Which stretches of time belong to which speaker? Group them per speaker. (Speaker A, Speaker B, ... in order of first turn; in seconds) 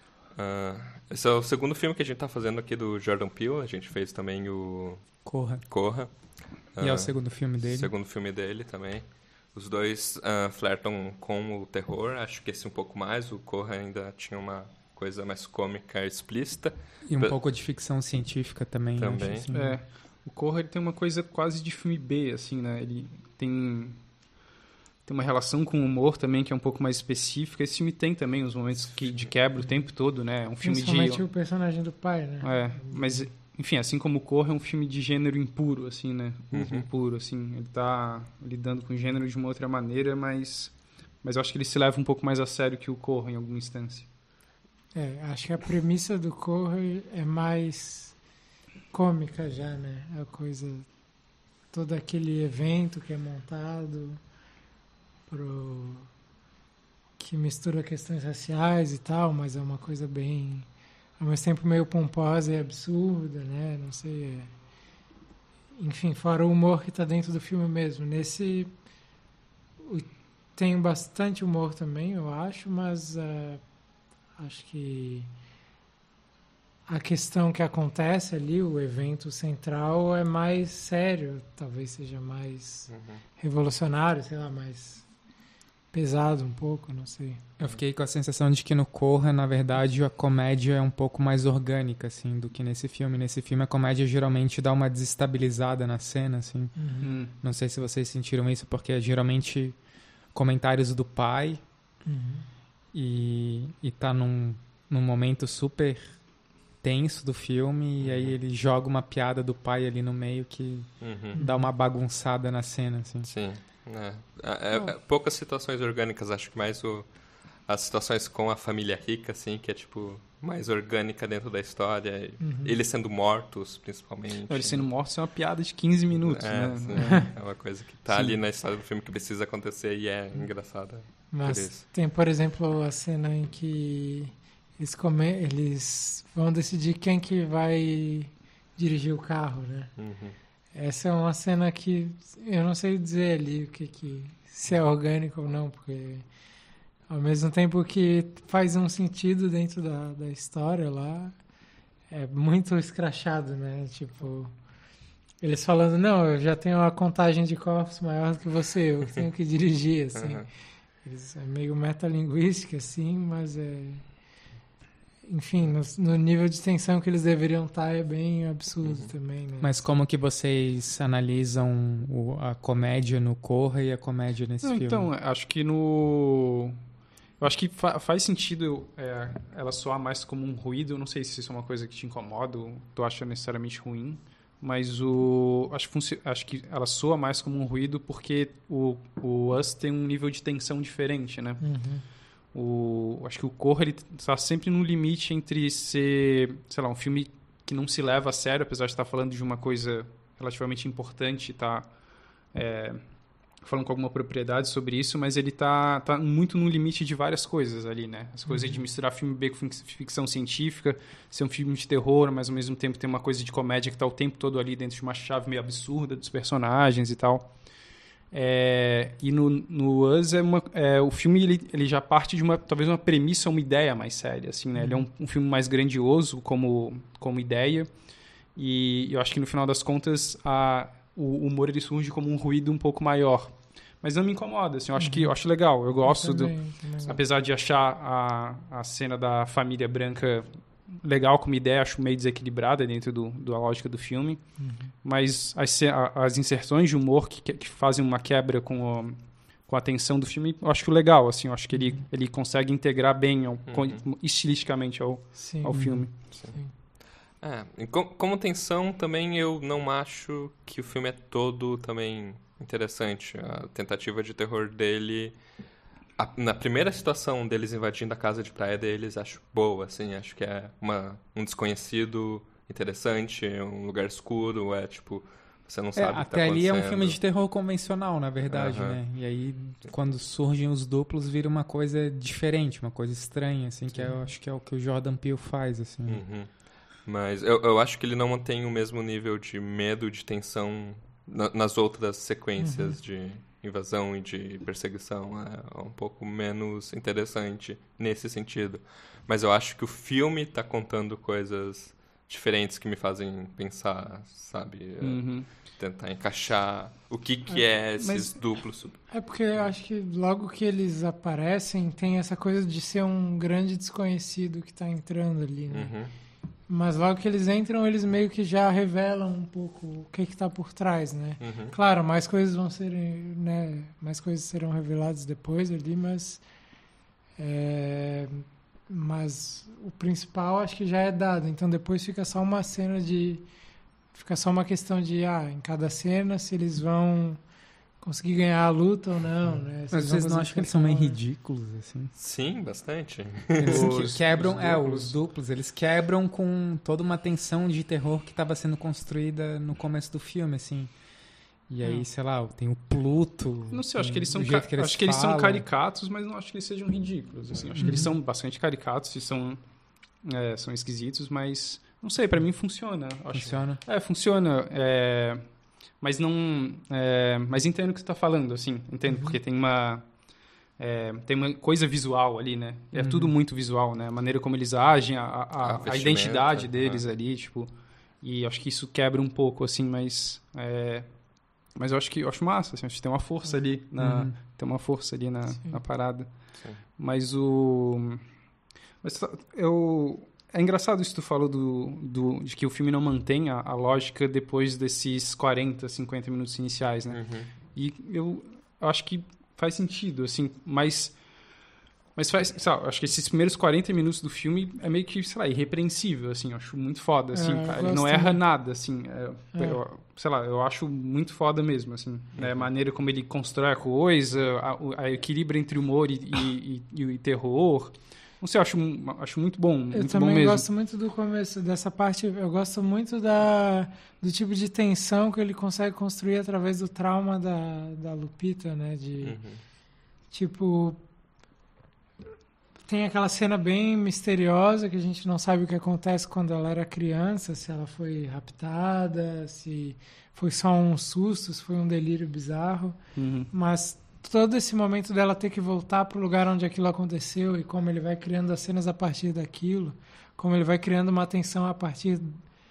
Speaker A: 0.3-17.4, 19.0-19.4, 36.5-36.9, 82.9-83.2, 108.0-108.3, 111.0-111.4, 113.2-124.9, 126.2-131.8, 139.9-140.3, 160.1-160.5, 168.8-169.1, 253.7-254.0, 257.4-265.4, 266.2-277.2, 278.5-279.0, 286.1-309.1, 315.7-316.1, 321.4-321.7, 342.1-343.9, 375.6-377.0, 397.1-397.5, 412.4-412.7, 429.2-429.6
Speaker B: 5.2-5.7, 6.8-7.9, 17.1-19.8, 87.6-99.8, 100.3-101.6, 102.9-106.2, 106.8-113.3, 169.6-175.1, 255.7-256.1, 275.9-286.2, 339.9-342.1, 343.6-350.9, 351.7-355.6, 357.7-358.1, 363.3-363.8, 372.9-373.3, 384.0-384.3
Speaker C: 19.5-24.0, 25.1-31.2, 32.4-44.1, 97.0-97.3, 124.5-127.4, 128.1-128.4, 174.6-176.8, 177.4-191.7, 192.5-201.9, 202.5-203.0, 203.6-217.5, 218.3-228.0, 228.5-256.1, 305.0-305.5, 343.6-345.2, 353.7-359.6, 360.2-365.4, 366.0-370.1, 370.8-377.7, 378.2-381.1, 381.7-388.2, 389.0-401.2, 402.1-420.6, 443.1-443.5
Speaker D: 30.6-33.2, 44.9-48.2, 48.9-50.9, 51.7-54.2, 55.3-56.1, 57.2-64.5, 65.8-68.7, 69.8-73.6, 74.4-75.3, 76.9-85.0, 85.9-87.4, 96.8-97.1, 102.0-102.5, 111.3-111.7, 122.4-122.8, 131.3-139.9, 140.7-146.2, 147.1-151.3, 152.1-154.5, 155.4-160.5, 161.0-164.1, 165.2-169.8, 191.6-192.0, 208.5-208.8, 224.8-225.1, 235.0-235.4, 236.0-237.2, 244.6-244.9, 251.7-252.0, 255.3-256.7, 284.0-284.3, 292.6-293.0, 309.1-315.9, 316.7-326.4, 327.4-333.4, 334.1-337.4, 338.0-341.2, 369.1-369.4, 407.3-408.4, 409.5-409.8, 419.9-429.4, 430.3-431.0, 432.8-443.0, 443.5-452.4